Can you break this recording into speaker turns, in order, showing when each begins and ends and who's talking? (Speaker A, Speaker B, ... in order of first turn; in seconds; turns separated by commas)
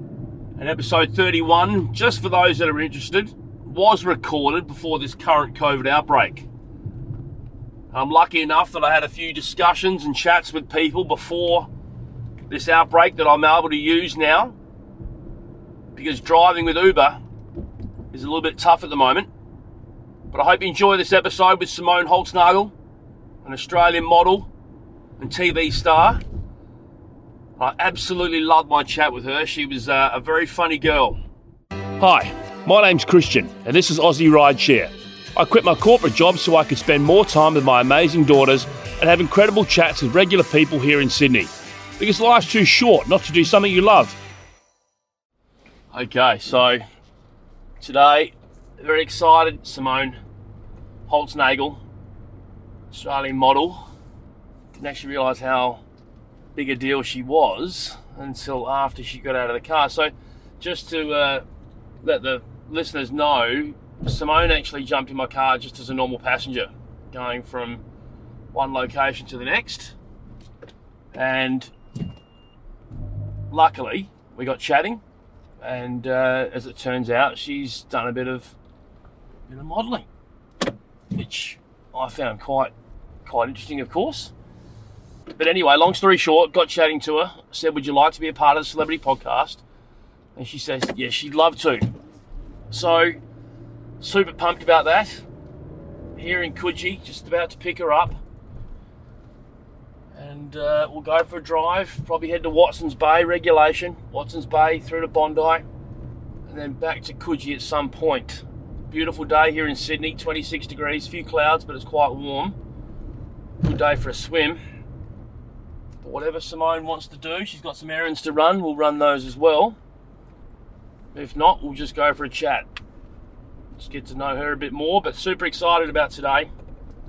Speaker A: 0.6-6.5, Speaker A: 7.9-11.7, Speaker A: 12.5-14.6, Speaker A: 15.9-17.2, Speaker A: 18.1-19.3, Speaker A: 20.3-22.7, Speaker A: 23.4-24.5, Speaker A: 25.2-26.2, Speaker A: 27.6-31.2, Speaker A: 32.0-44.2, Speaker A: 45.9-46.8, Speaker A: 47.8-50.2, Speaker A: 51.1-51.8, Speaker A: 52.9-53.8, Speaker A: 54.7-55.8, Speaker A: 56.5-61.4, Speaker A: 62.0-67.8, Speaker A: 68.5-70.0, Speaker A: 71.1-71.7, Speaker A: 73.5-75.0, Speaker A: 75.6-78.5, Speaker A: 79.5-80.1, Speaker A: 81.1-82.7, Speaker A: 83.2-84.3, Speaker A: 85.4-89.6, Speaker A: 90.3-91.9, Speaker A: 92.7-93.2, Speaker A: 94.0-95.2, Speaker A: 96.2-98.2, Speaker A: 100.1-105.7, Speaker A: 106.5-112.6, Speaker A: 113.6-114.6, Speaker A: 116.0-119.8, Speaker A: 121.1-122.7, Speaker A: 123.8-126.5